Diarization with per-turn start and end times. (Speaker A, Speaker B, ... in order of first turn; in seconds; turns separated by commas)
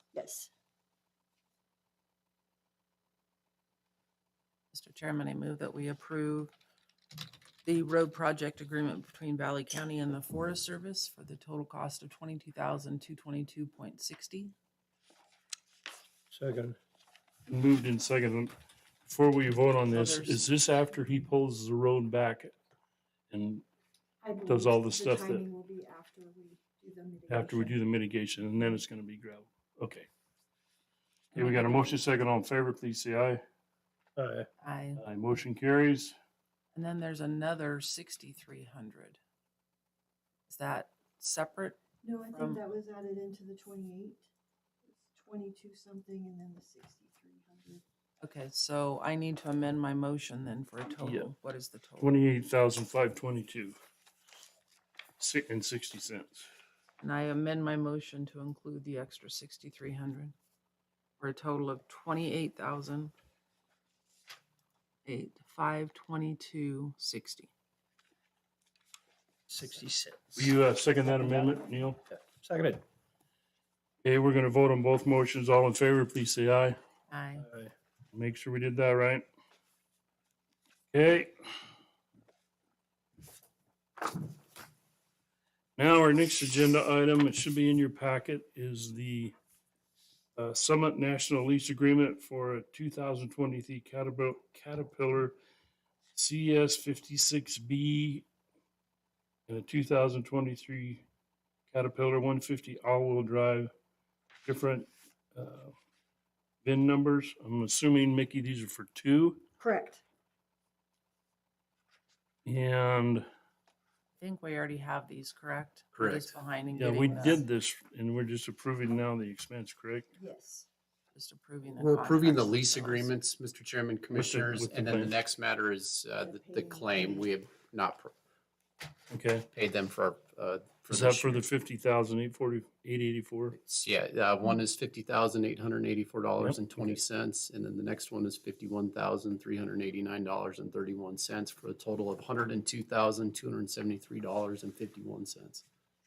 Speaker A: 0.1-0.5, Speaker B: 4.7-6.5, Speaker B: 7.6-14.5, Speaker C: 16.3-16.8, Speaker D: 17.5-18.5, Speaker D: 19.0-22.5, Speaker B: 19.8-20.5, Speaker D: 23.3-23.6, Speaker A: 24.2-27.7, Speaker D: 24.4-25.4, Speaker D: 27.3-30.1, Speaker B: 31.3-32.0, Speaker D: 31.3-33.4, Speaker C: 34.1-34.5, Speaker B: 34.6-35.0, Speaker D: 35.0-36.1, Speaker B: 36.7-39.2, Speaker B: 40.5-42.6, Speaker A: 42.0-44.3, Speaker A: 44.9-47.8, Speaker B: 48.2-52.2, Speaker D: 51.0-51.3, Speaker D: 52.0-53.8, Speaker D: 55.2-56.5, Speaker B: 57.0-60.3, Speaker B: 61.2-63.1, Speaker B: 65.0-67.5, Speaker C: 69.5-70.5, Speaker D: 70.3-72.0, Speaker C: 71.2-71.6, Speaker C: 72.1-72.8, Speaker D: 74.0-76.8, Speaker B: 77.1-77.5, Speaker C: 77.4-77.7, Speaker D: 78.1-79.2, Speaker D: 80.9-81.3, Speaker D: 85.8-89.3, Speaker D: 90.3-95.3, Speaker D: 96.1-98.3, Speaker D: 99.5-101.0, Speaker D: 101.7-103.7, Speaker D: 104.5-105.7, Speaker D: 106.6-109.4, Speaker A: 109.6-110.0, Speaker D: 112.4-113.2, Speaker B: 114.2-117.4, Speaker E: 116.0-116.3, Speaker D: 116.7-120.1, Speaker A: 120.1-120.7, Speaker B: 121.1-123.1, Speaker E: 121.8-128.1, Speaker D: 124.1-125.1, Speaker A: 126.2-127.3, Speaker D: 129.1-129.5, Speaker E: 129.5-131.4, Speaker D: 130.9-133.6, Speaker E: 133.5-145.6